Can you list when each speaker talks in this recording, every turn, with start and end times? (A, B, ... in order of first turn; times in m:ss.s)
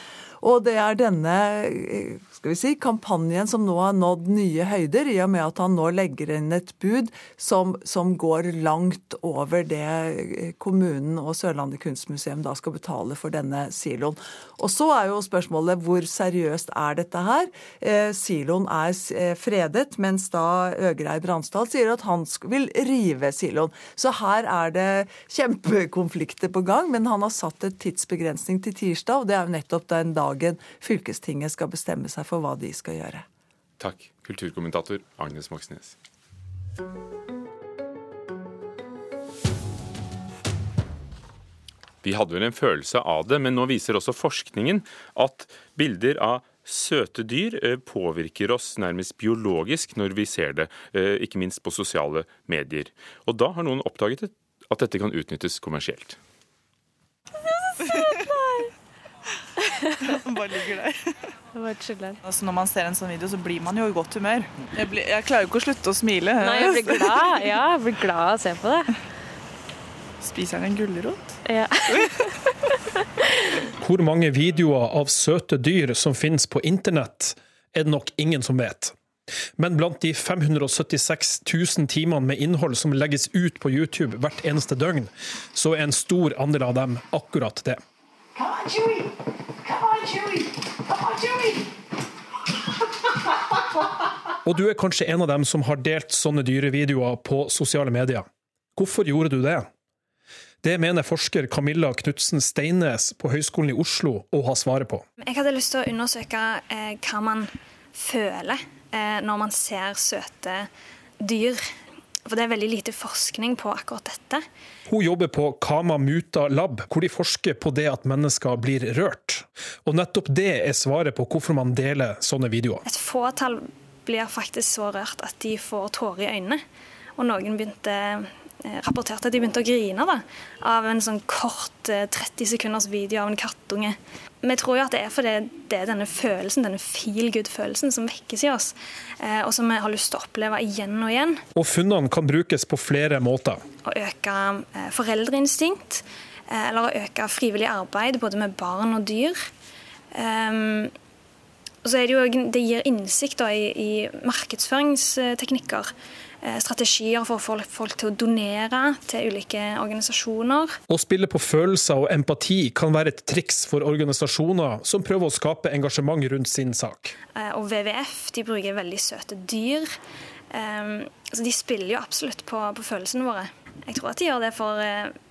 0:00.4-0:33.2 A
0:33.8-0:35.9 B
0:42.0-0:56.2 B
1:00.4-1:00.9 C
1:01.5-1:02.2 D
1:02.2-1:07.2 C
1:06.4-1:08.9 D
1:10.2-1:11.3 C
1:11.4-1:12.3 D
1:13.8-1:18.9 E
1:19.6-1:27.8 E
1:34.4-1:39.7 E
1:40.6-1:45.0 E
1:45.2-1:51.7 F
1:52.2-1:54.4 F
1:54.9-2:02.8 E
2:02.8-2:06.6 F
2:07.2-2:21.4 F
2:21.6-2:23.6 E
2:23.8-2:29.4 F
2:30.1-2:30.9 F
2:31.8-2:40.8 F
2:40.9-2:47.1 E
2:47.3-2:49.9 F
2:50.5-2:55.2 F